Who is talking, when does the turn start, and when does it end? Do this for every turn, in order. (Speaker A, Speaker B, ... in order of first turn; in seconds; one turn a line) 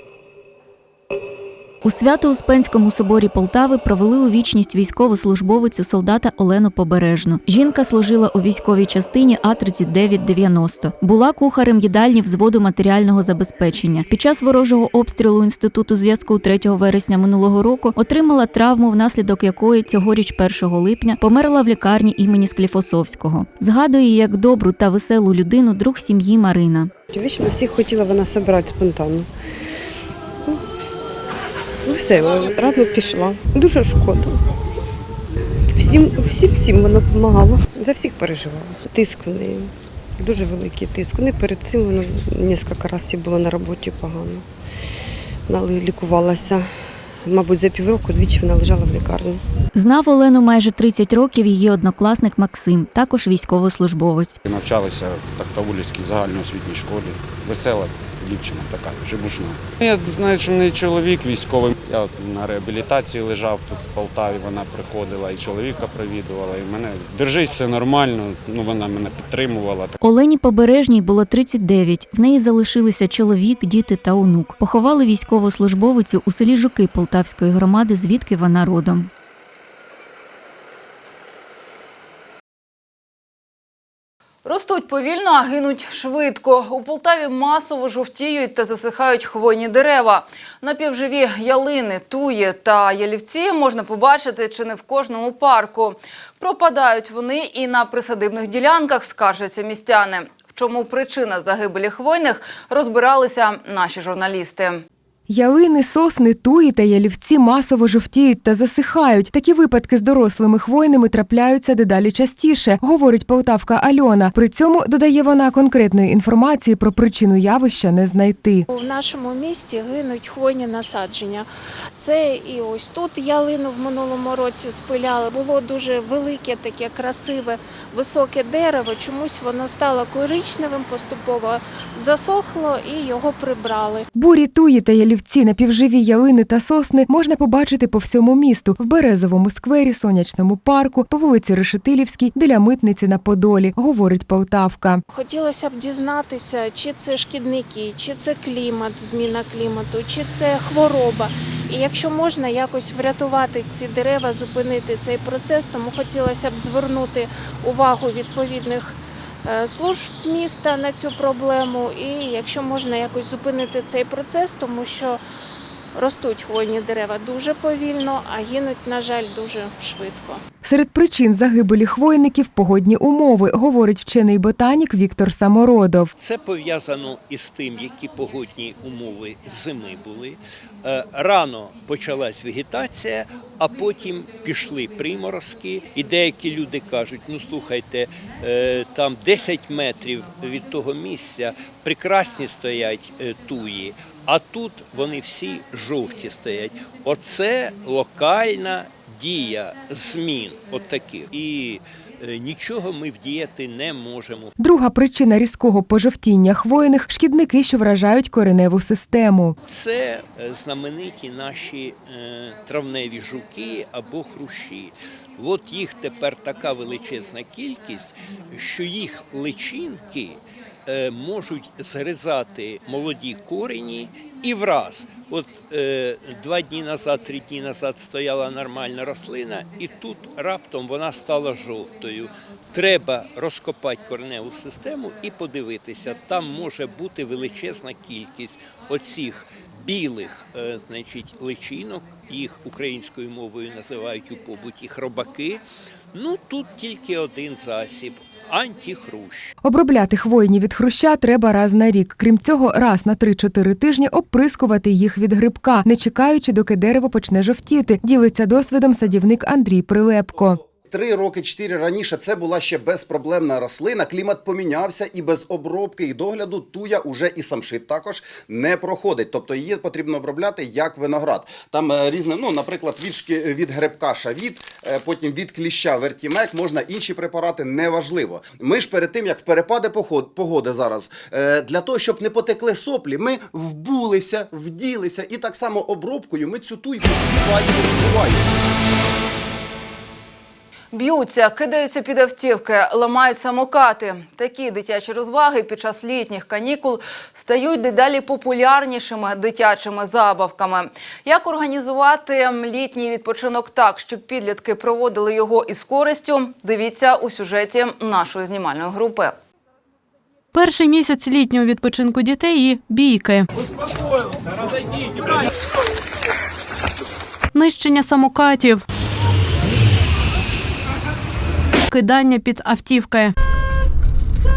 Speaker A: 1.8-26.9
Speaker B: 27.1-29.2
Speaker B: 31.9-34.3
Speaker B: 35.8-44.4
Speaker B: 45.5-46.6
Speaker B: 47.3-49.4
Speaker A: 49.7-54.4
Speaker C: 54.6-68.9
Speaker C: 69.5-69.9
Speaker A: 70.0-79.1
Speaker D: 84.5-104.8
Speaker E: 105.3-118.7
Speaker F: 118.7-121.5
Speaker F: 122.0-134.1
Speaker E: 134.2-145.0
Speaker F: 145.1-165.2
Speaker F: 165.9-170.4
Speaker E: 170.6-176.1
Speaker G: 176.2-204.5
Speaker E: 204.6-209.6
Speaker G: 209.7-249.5
Speaker E: 249.6-260.6
Speaker H: 260.8-288.5
Speaker D: 290.9-309.4
Speaker I: 310.5-313.5
Speaker I: 317.5-318.8
Speaker I: 321.9-323.3